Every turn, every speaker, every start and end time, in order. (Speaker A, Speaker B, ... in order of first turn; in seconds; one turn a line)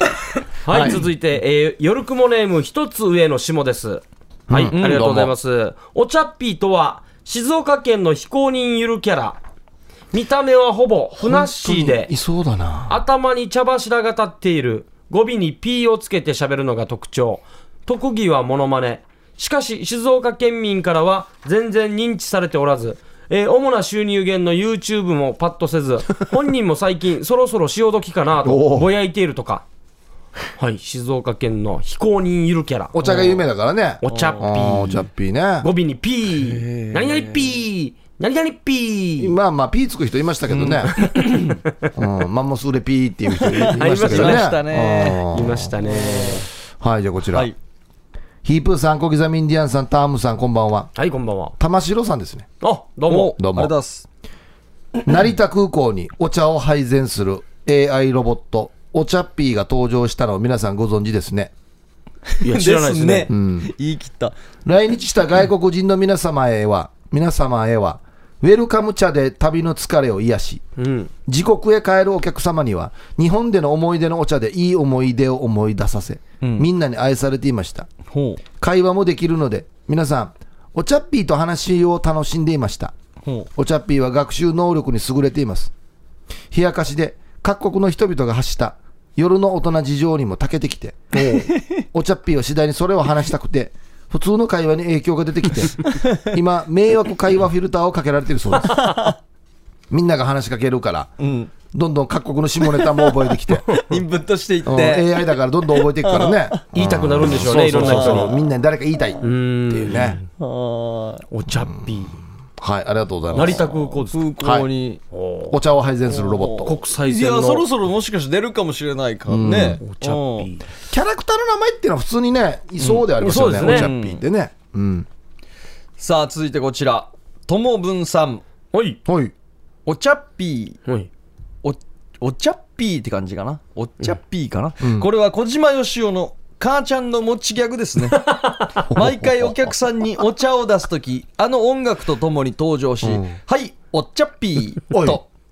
Speaker A: 0.7-9.4
Speaker B: 0.7-1.1
Speaker B: 4.5-5.3
Speaker C: 4.7-5.1
Speaker A: 10.1-12.1
Speaker B: 11.2-13.0
Speaker A: 12.9-29.6
Speaker B: 28.4-28.9
Speaker A: 30.6-33.0
Speaker B: 32.9-35.7
Speaker A: 34.0-35.0
Speaker C: 34.1-34.4
Speaker A: 35.6-39.3
Speaker C: 36.3-37.5
Speaker B: 39.2-40.9
Speaker C: 40.5-41.5
Speaker A: 40.9-41.6
Speaker B: 41.9-45.7
Speaker C: 43.5-45.2
Speaker A: 43.6-44.5
Speaker A: 45.3-46.5
Speaker C: 45.8-46.4
Speaker B: 46.8-47.5
Speaker B: 48.4-50.9
Speaker A: 51.0-51.5
Speaker B: 51.6-52.5
Speaker A: 52.6-53.4
Speaker C: 53.1-54.0
Speaker B: 53.4-53.7
Speaker B: 55.0-61.5
Speaker C: 62.3-64.3
Speaker A: 62.4-63.3
Speaker B: 63.3-63.7
Speaker B: 64.6-70.6
Speaker A: 70.8-71.1
Speaker B: 71.3-77.9
Speaker C: 76.4-76.7
Speaker C: 78.1-78.4
Speaker B: 78.6-82.9
Speaker C: 83.2-83.5
Speaker B: 83.5-85.7
Speaker B: 86.5-98.9
Speaker C: 91.2-91.8
Speaker C: 95.8-96.3
Speaker C: 98.7-99.1
Speaker B: 99.9-101.1
Speaker C: 101.2-101.5
Speaker B: 101.7-103.8
Speaker C: 102.7-103.0
Speaker C: 103.7-106.6
Speaker B: 104.6-110.2
Speaker A: 106.7-108.4
Speaker C: 107.4-108.4
Speaker A: 109.2-110.2
Speaker C: 110.4-111.2
Speaker A: 111.3-112.2
Speaker B: 112.6-114.7
Speaker A: 113.3-114.2
Speaker C: 114.1-115.0
Speaker A: 115.1-115.6
Speaker B: 115.5-116.8
Speaker C: 116.1-120.5
Speaker A: 116.6-117.7
Speaker B: 119.3-119.8
Speaker A: 119.8-120.6
Speaker B: 120.9-125.1
Speaker A: 123.1-123.9
Speaker C: 123.6-124.2
Speaker C: 126.0-128.4
Speaker A: 128.7-129.0
Speaker B: 129.0-129.3
Speaker C: 129.8-130.8
Speaker C: 131.6-138.3
Speaker B: 134.8-135.1
Speaker A: 138.2-138.9
Speaker C: 138.9-145.2
Speaker B: 138.9-139.7
Speaker B: 143.0-143.4
Speaker B: 144.9-145.2